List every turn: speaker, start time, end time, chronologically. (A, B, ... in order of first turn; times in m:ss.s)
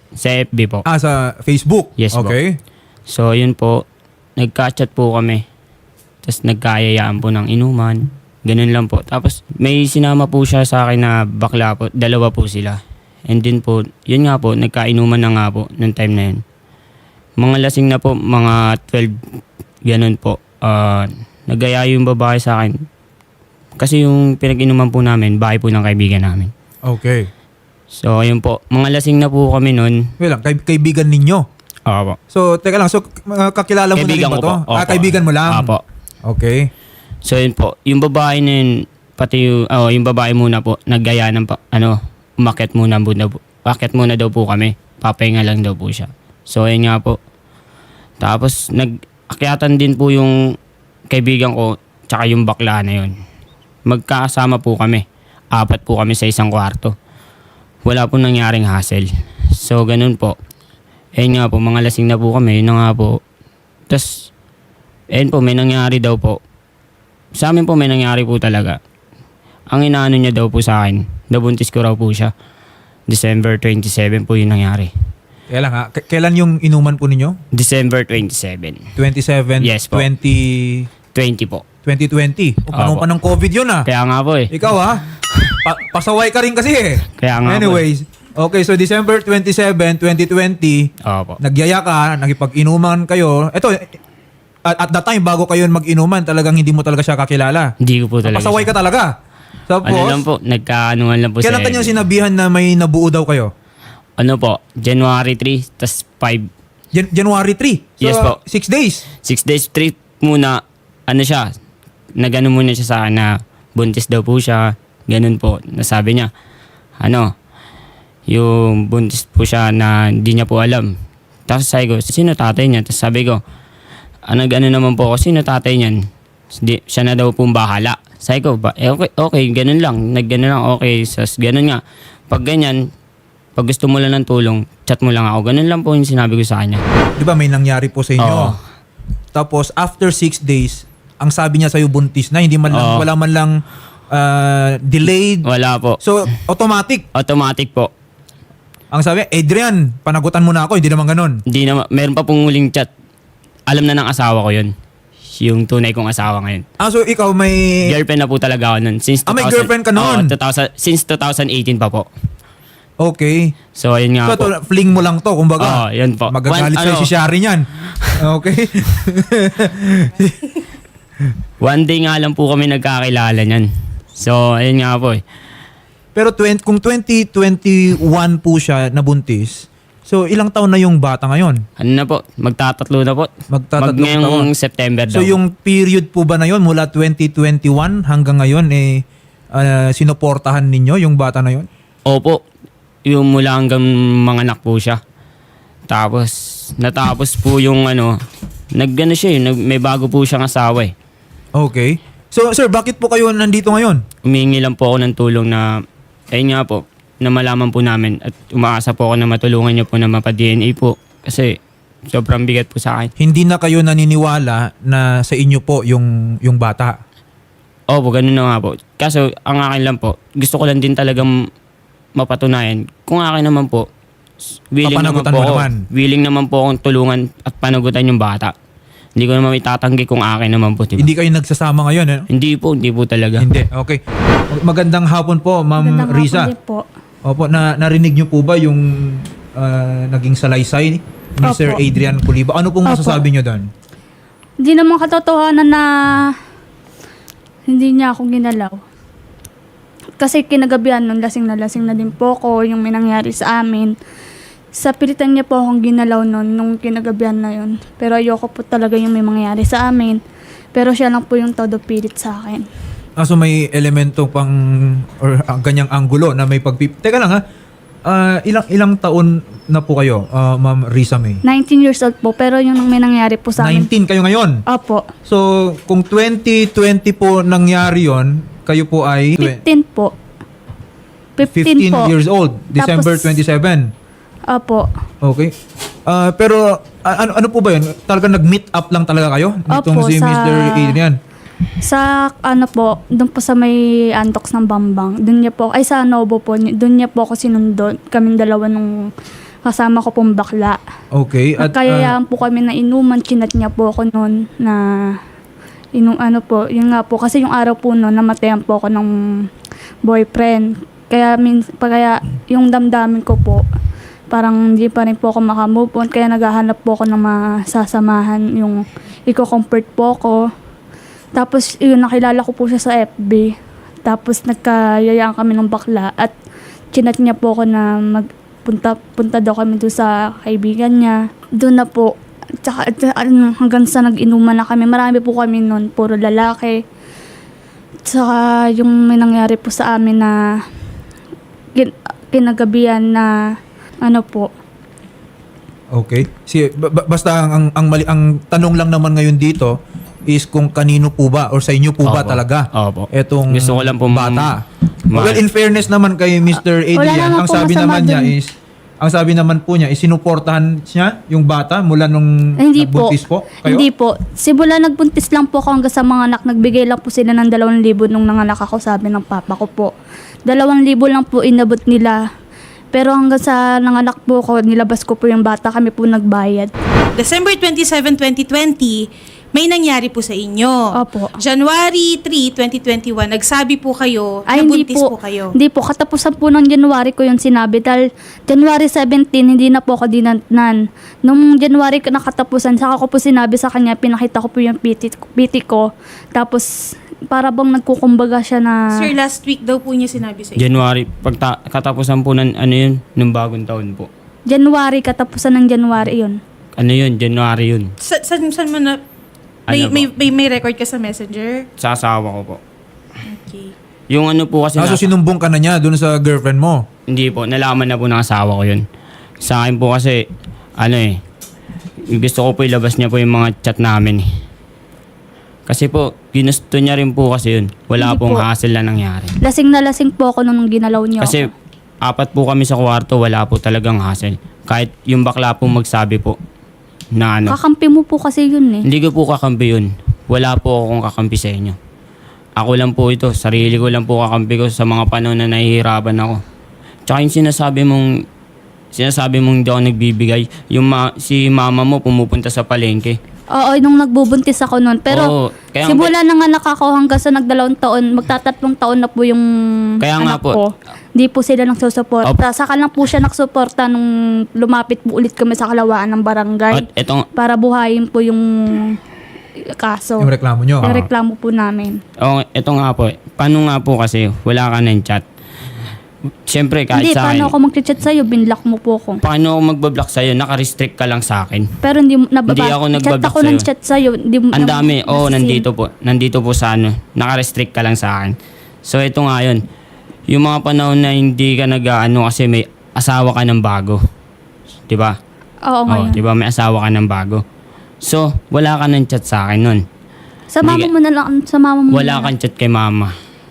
0:00.2-0:00.8 A
0:00.9-0:02.6 B
0:02.0-0:02.4 A
0:03.1-0:03.8 A
0:04.4-0:05.4 A
0:06.2-0:16.4 A
0:17.4-0:19.2 A
0:19.9-0:22.7 A
0:23.8-0:26.5 A
0:26.9-0:27.3 B
0:27.9-0:30.0 A
0:30.2-0:31.4 B
0:31.9-0:32.2 A
0:32.3-0:35.7 B
0:34.0-0:35.8 A
0:36.2-0:36.7 B
0:37.2-0:47.2 A
0:48.2-0:50.3 A
0:51.1-0:53.1 A
0:53.9-0:56.9 A
0:57.9-1:00.4 A
1:01.2-1:03.2 A
1:05.1-1:06.4 A
1:07.4-1:08.8 A
1:09.7-1:12.3 A
1:13.1-1:14.9 A
1:15.5-1:17.4 B
1:17.5-1:18.8 A
1:19.0-1:20.9 B
1:19.6-1:20.1 A
1:21.1-1:21.6 A
1:21.8-1:23.9 B
1:22.7-1:23.0 A
1:23.9-1:24.5 A
1:24.5-1:25.0 B
1:25.4-1:25.6 A
1:25.6-1:30.9 B
1:27.2-1:27.8 A
1:31.1-1:31.4 A
1:31.4-1:33.9 B
1:34.7-1:37.7 B
1:37.8-1:38.7 A
1:38.2-1:39.1 B
1:39.7-1:40.2 B
1:39.8-1:42.0 A
1:41.4-1:43.5 B
1:44.2-1:46.5 A
1:46.9-1:49.0 B
1:48.0-1:48.4 A
1:49.2-1:51.5 A
1:52.2-1:56.3 A
1:57.0-1:57.3 A
1:58.3-2:00.9 A
2:01.5-2:03.4 A
2:04.3-2:06.0 A
2:06.5-2:12.8 A
2:13.6-2:16.8 A
2:17.2-2:18.6 B
2:18.2-2:18.6 A
2:19.3-2:23.6 B
2:22.7-2:23.1 A
2:24.1-2:25.5 B
2:25.4-2:26.0 A
2:26.0-2:27.1 B
2:27.2-2:27.9 A
2:28.9-2:31.4 B
2:31.5-2:32.9 A
2:33.7-2:34.7 A
2:35.4-2:36.6 A
2:36.8-2:37.9 B
2:37.9-2:42.1 A
2:39.3-2:40.3 B
2:43.0-2:43.5 B
2:43.8-2:44.5 A
2:44.3-2:50.4 B
2:45.6-2:47.1 A
2:51.6-2:55.2 A
2:56.2-3:01.6 B
3:01.8-3:05.4 A
3:03.5-3:04.5 B
3:05.1-3:09.0 B
3:09.6-3:11.7 B
3:12.1-3:12.4 A
3:13.1-3:15.0 A
3:15.9-3:18.2 A
3:18.8-3:20.9 A
3:21.6-3:24.0 B
3:24.3-3:25.7 A
3:26.3-3:31.6 A
3:32.1-3:33.1 A
3:33.2-3:37.0 B
3:37.9-3:41.4 A
3:42.2-3:43.8 A
3:44.7-3:48.5 A
3:44.8-3:45.8 B
3:49.2-3:51.1 A
3:51.0-3:52.3 B
3:52.3-3:53.6 A
3:53.4-3:56.5 B
3:55.8-3:56.8 C
3:57.2-4:03.7 B
4:01.4-4:01.8 C
4:02.8-4:03.2 C
4:04.6-4:06.3 C
4:07.7-4:08.8 C
4:10.2-4:13.9 C
4:14.7-4:20.2 C
4:20.7-4:22.7 C
4:23.2-4:27.4 B
4:28.1-4:31.4 B
4:31.4-4:33.9 C
4:33.6-4:34.6 B
4:34.7-4:35.0 C
4:35.3-4:39.6 B
4:39.4-4:40.1 C
4:41.4-4:42.1 C
4:41.5-4:43.9 B
4:42.7-4:43.4 C
4:44.5-4:44.9 C
4:45.2-4:45.5 B
4:46.1-4:51.2 B
4:49.7-4:51.0 C
4:51.8-4:58.9 C
4:59.7-5:00.8 C
5:01.1-5:02.2 B
5:01.6-5:04.8 C
5:06.0-5:09.1 C
5:10.0-5:13.6 C
5:14.3-5:20.4 C
5:21.4-5:23.5 C
5:24.0-5:26.4 C
5:26.9-5:32.1 C
5:32.6-5:36.8 C
5:38.1-5:40.3 C
5:41.8-5:43.3 C
5:44.0-5:44.5 C
5:45.9-5:49.8 B
5:50.3-5:54.6 B
5:52.0-5:54.5 A
5:55.1-5:55.4 A
5:55.1-5:58.5 B
5:56.9-5:58.3 C
5:59.0-6:03.9 B
6:02.6-6:09.9 C
6:10.5-6:12.2 C
6:12.9-6:16.7 C
6:17.2-6:20.8 D
6:21.0-6:21.4 C
6:21.4-6:25.5 D
6:24.5-6:30.8 C
6:31.3-6:35.8 C
6:36.4-6:36.7 C
6:37.3-6:39.1 C
6:38.9-6:40.7 D
6:40.6-6:44.1 A
6:44.5-6:46.4 C
6:46.8-6:47.9 A
6:48.0-6:49.0 D
6:49.7-6:50.1 A
6:49.7-6:51.7 D
6:51.8-6:52.6 A
6:53.2-6:53.7 D
6:54.1-6:55.1 A
6:54.8-6:56.9 B
6:57.1-6:58.8 A
6:59.4-7:00.2 A
7:00.8-7:01.2 A
7:02.1-7:04.2 A
7:05.7-7:09.3 A
7:08.0-7:08.4 C
7:09.4-7:11.5 C
7:11.2-7:11.5 A
7:12.0-7:16.4 A
7:17.2-7:17.6 A
7:17.5-7:18.9 C
7:18.8-7:21.8 A
7:22.6-7:26.4 A
7:27.1-7:28.1 A
7:28.9-7:33.2 A
7:33.6-7:35.3 C
7:35.1-7:36.1 A
7:35.8-7:39.4 C
7:40.0-7:40.6 A
7:40.2-7:44.0 C
7:44.6-7:46.8 C
7:46.7-7:47.3 A
7:47.4-7:49.0 C
7:49.8-7:50.3 C
7:50.2-7:51.1 B
7:50.8-7:52.0 C
7:52.2-7:55.2 A
7:56.5-7:57.5 A
7:56.9-7:59.2 C
7:59.2-8:01.7 A
8:01.8-8:05.6 C
8:02.5-8:03.6 A
8:04.5-8:08.3 A
8:08.8-8:09.6 A
8:10.3-8:14.0 A
8:14.9-8:15.2 A
8:15.7-8:16.2 C
8:15.9-8:17.4 A
8:18.0-8:19.8 A
8:20.5-8:22.3 C
8:20.6-8:20.9 A
8:21.9-8:23.1 A